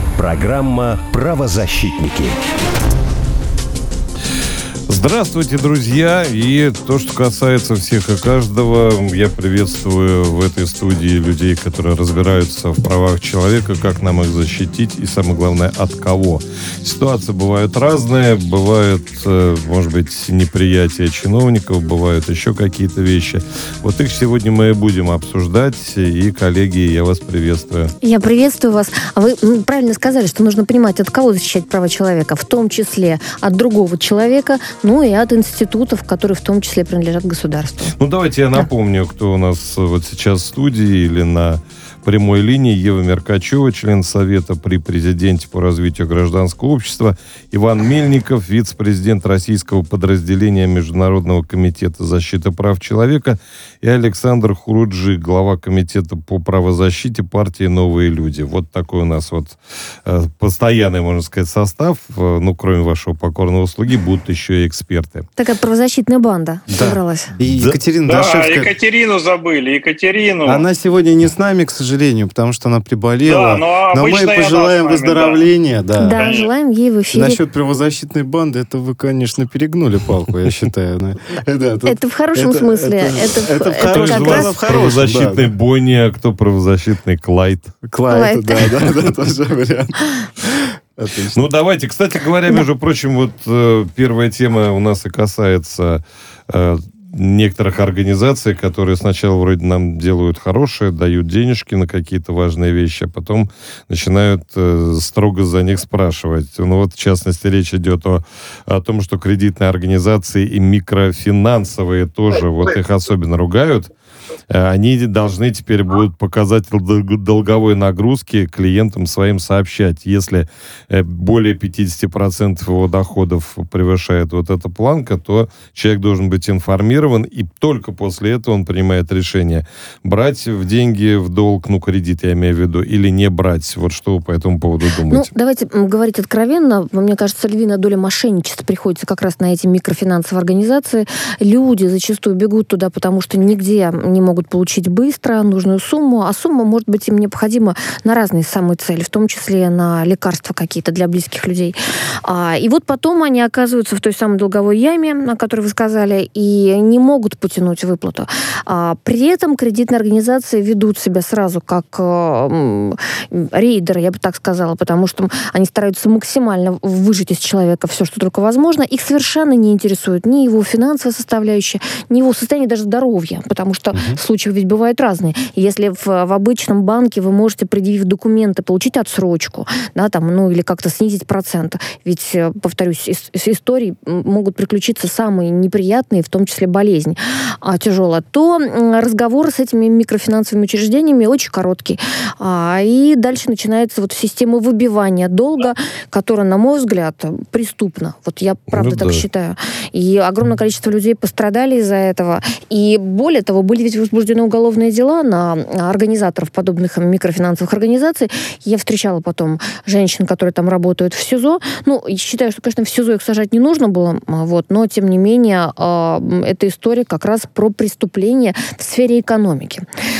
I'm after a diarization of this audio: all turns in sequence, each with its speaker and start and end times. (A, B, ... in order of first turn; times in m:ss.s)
0:00.2-0:02.4 A
0:04.9-0:27.9 B
0:28.0-0:37.9 C
0:38.0-1:05.2 B
1:05.4-1:07.3 C
1:06.7-1:08.7 D
1:07.4-1:07.8 B
1:08.0-1:10.6 E
1:10.4-1:16.2 D
1:13.2-1:15.4 E
1:16.0-1:17.4 C
1:16.1-1:16.5 E
1:17.1-1:25.4 D
1:21.8-1:24.5 C
1:23.9-1:27.8 B
1:27.9-1:31.5 D
1:28.1-1:28.7 C
1:31.3-1:53.9 B
1:54.5-2:15.3 B
2:15.1-3:39.8 C
2:53.9-2:54.2 D
3:18.7-3:19.2 B